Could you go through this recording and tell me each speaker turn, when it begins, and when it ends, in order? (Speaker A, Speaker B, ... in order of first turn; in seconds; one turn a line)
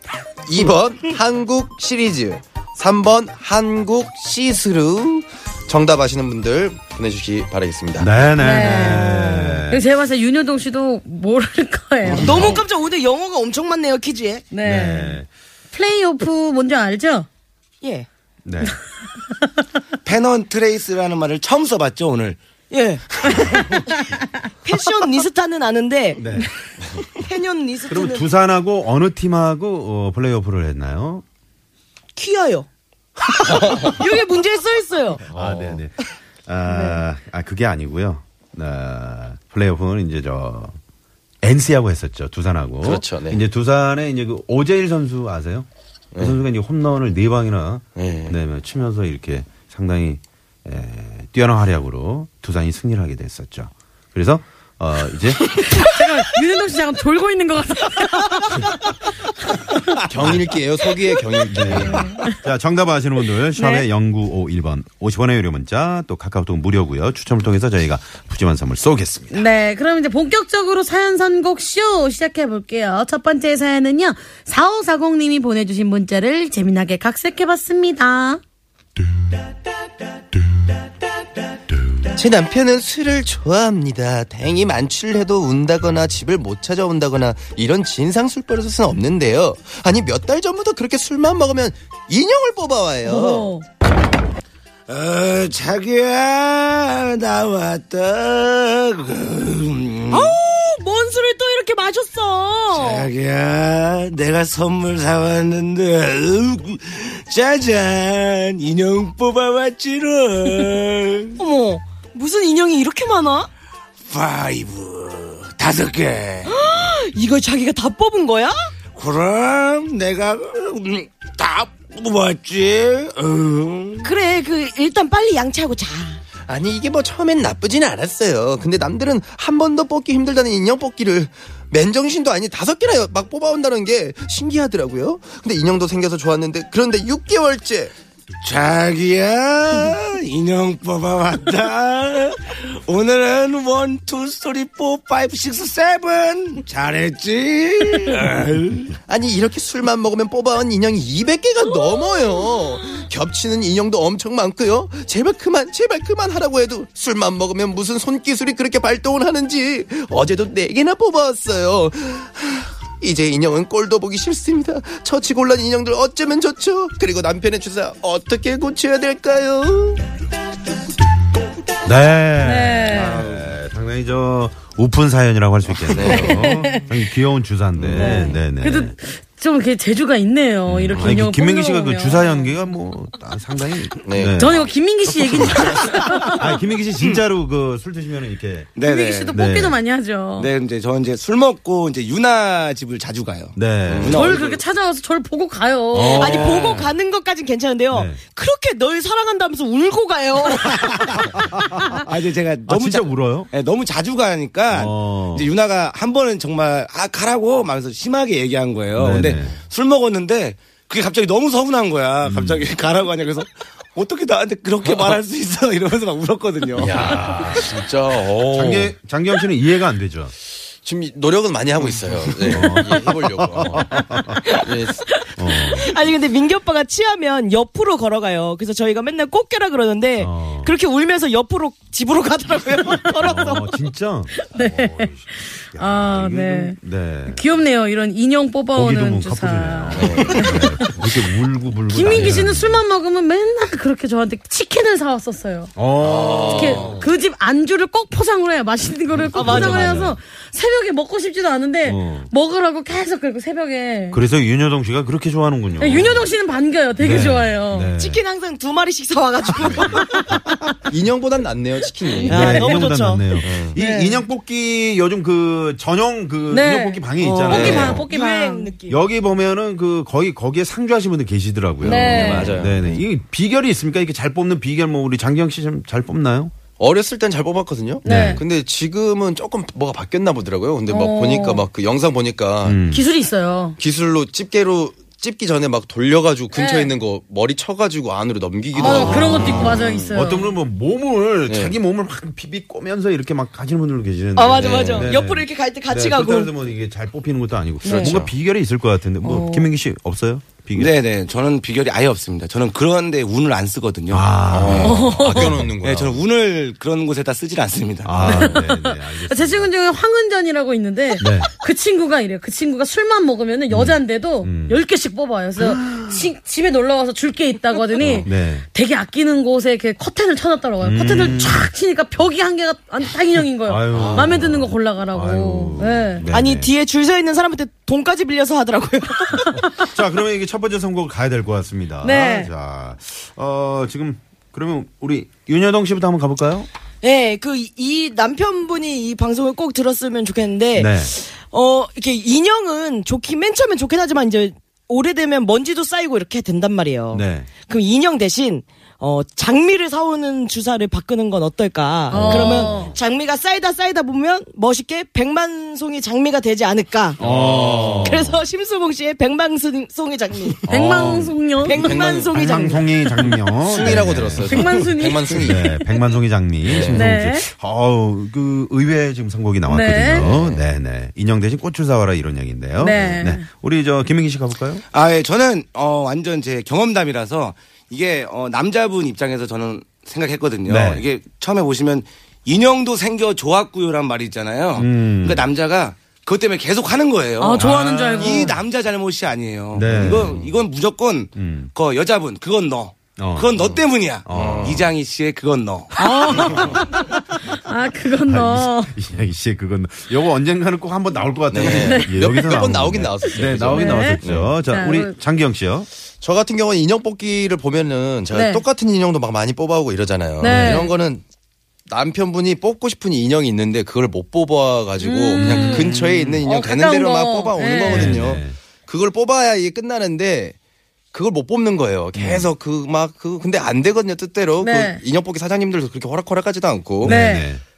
Speaker A: 0.5-8.1
Speaker B: 8.0-9.8
Speaker C: 8.4-12.5
Speaker B: 12.2-12.6
Speaker D: 12.2-14.5
Speaker C: 14.5-15.2
Speaker B: 14.6-15.3
Speaker C: 15.7-17.3
Speaker D: 17.8-18.1
Speaker B: 18.4-18.8
Speaker E: 20.0-22.4
Speaker D: 22.7-23.0
Speaker E: 23.3-23.6
Speaker D: 24.6-26.2
Speaker B: 26.1-26.5
Speaker D: 27.1-28.3
Speaker B: 27.9-31.2
Speaker D: 32.1-32.7
Speaker A: 33.5-33.9
Speaker D: 33.8-35.2
Speaker B: 35.3-40.8
Speaker A: 35.3-35.8
Speaker D: 36.7-37.0
Speaker B: 41.4-55.6
Speaker A: 42.8-43.4
Speaker A: 48.0-48.4
Speaker C: 55.6-58.6
Speaker A: 60.1-62.1
Speaker B: 60.2-60.5
Speaker B: 61.5-69.4
Speaker C: 61.9-62.4
Speaker C: 63.5-63.9
Speaker C: 69.3-78.4
Speaker A: 82.1-93.5
Speaker C: 93.0-93.6
Speaker E: 94.9-100.3
Speaker D: 100.1-103.1
Speaker E: 102.7-111.4
Speaker D: 111.4-113.5
Speaker E: 114.1-116.5
Speaker D: 116.5-118.5
Speaker E: 118.9-124.1
Speaker D: 124.0-126.2
Speaker A: 126.5-137.9
Speaker E: 138.4-148.9
Speaker A: 149.1-170.0
Speaker B: 171.8-178.9
Speaker C: 172.4-173.2
Speaker E: 172.9-173.3
Speaker A: 175.8-176.5
Speaker C: 176.1-176.8
Speaker A: 177.8-178.2
Speaker C: 177.9-182.5
Speaker B: 180.7-184.7
Speaker A: 184.0-184.5
Speaker C: 184.4-186.5
Speaker B: 186.2-188.7
Speaker E: 188.8-189.3
Speaker C: 188.8-190.5
Speaker B: 189.3-189.8
Speaker E: 190.4-194.6
Speaker B: 193.5-194.3
Speaker A: 193.8-194.3
Speaker C: 194.1-196.5
Speaker B: 195.9-196.9
Speaker D: 196.1-201.1
Speaker B: 197.9-198.2
Speaker E: 200.6-201.4
Speaker B: 201.4-202.0
Speaker E: 201.9-217.2
Speaker B: 202.7-203.5
Speaker B: 204.7-205.5
Speaker B: 208.9-209.5
Speaker B: 212.2-212.7
Speaker B: 216.8-217.7
Speaker A: 216.8-218.9
Speaker B: 218.5-220.3
Speaker A: 220.8-225.0
Speaker B: 222.4-224.6
Speaker B: 225.4-226.0
Speaker D: 225.7-233.7
Speaker B: 230.2-230.7
Speaker B: 233.2-237.4
Speaker C: 234.4-236.8
Speaker C: 237.3-241.0
Speaker B: 238.7-242.8
Speaker A: 240.0-240.6
Speaker C: 241.9-245.7
Speaker B: 245.8-247.1
Speaker A: 246.0-247.0
Speaker C: 246.4-254.2
Speaker B: 249.1-250.2
Speaker D: 249.3-250.1
Speaker B: 251.8-252.3
Speaker B: 254.1-256.3
Speaker C: 255.8-257.9
Speaker B: 257.0-258.2
Speaker D: 258.0-260.3
Speaker B: 259.5-260.0
Speaker A: 260.9-262.8
Speaker B: 262.2-268.1
Speaker D: 262.3-263.3
Speaker A: 263.4-263.8
Speaker C: 263.8-264.2
Speaker C: 266.5-268.7
Speaker D: 267.2-269.0
Speaker A: 267.5-267.9
Speaker B: 268.9-276.5
Speaker A: 271.8-273.0
Speaker C: 271.8-272.6
Speaker A: 276.8-282.8
Speaker C: 278.0-278.4
Speaker B: 278.0-278.4
Speaker C: 280.9-281.6
Speaker B: 282.6-283.0
Speaker C: 282.9-283.8
Speaker A: 283.8-289.8
Speaker C: 286.5-286.9
Speaker C: 288.8-290.5
Speaker B: 288.8-300.9
Speaker A: 291.5-291.7
Speaker D: 294.4-296.5
Speaker A: 294.6-295.1
Speaker A: 297.8-298.3
Speaker D: 297.8-298.1
Speaker C: 299.2-299.7
Speaker E: 300.8-304.3
Speaker B: 304.1-305.7
Speaker A: 304.5-306.2
Speaker C: 304.8-305.6
Speaker E: 305.8-308.4
Speaker B: 308.0-309.7
Speaker C: 308.2-326.2
Speaker B: 311.2-311.5
Speaker B: 313.7-314.8
Speaker B: 315.6-316.2
Speaker B: 318.0-318.6
Speaker B: 320.8-321.7
Speaker B: 323.6-326.7
Speaker A: 323.9-324.3
Speaker D: 326.3-329.7
Speaker B: 329.6-336.7
Speaker C: 332.0-332.5
Speaker D: 337.0-357.2
Speaker B: 340.8-341.1
Speaker B: 347.1-347.5
Speaker C: 352.1-352.9
Speaker B: 352.1-352.9
Speaker B: 357.2-358.4
Speaker A: 357.2-358.2
Speaker D: 358.0-360.6
Speaker B: 360.7-361.4
Speaker C: 360.7-361.8
Speaker D: 361.6-363.3
Speaker A: 361.7-362.3
Speaker B: 362.3-364.8
Speaker A: 363.6-365.7
Speaker C: 364.5-365.9
Speaker B: 365.3-374.8
Speaker A: 366.6-367.0
Speaker C: 366.9-367.4
Speaker C: 369.7-370.2
Speaker A: 370.0-370.6
Speaker C: 372.8-373.4
Speaker E: 374.9-395.9
Speaker B: 380.6-381.0
Speaker B: 384.7-385.5
Speaker C: 387.4-388.5
Speaker B: 387.6-388.5
Speaker B: 389.7-390.5
Speaker A: 390.0-390.4
Speaker B: 391.4-391.7
Speaker B: 393.2-393.7
Speaker B: 394.2-394.8
Speaker A: 394.3-394.9
Speaker C: 396.0-398.9
Speaker B: 398.2-405.9
Speaker A: 401.5-404.5
Speaker C: 401.6-402.1
Speaker C: 403.7-405.1
Speaker A: 406.2-411.2
Speaker C: 408.3-408.6
Speaker C: 410.4-410.9
Speaker B: 410.4-410.9
Speaker A: 411.9-420.5
Speaker C: 415.0-418.2
Speaker B: 415.3-416.4
Speaker B: 417.8-418.6
Speaker A: 421.1-427.1
Speaker B: 422.1-422.5
Speaker C: 424.6-425.0
Speaker B: 427.0-427.6
Speaker C: 427.0-427.5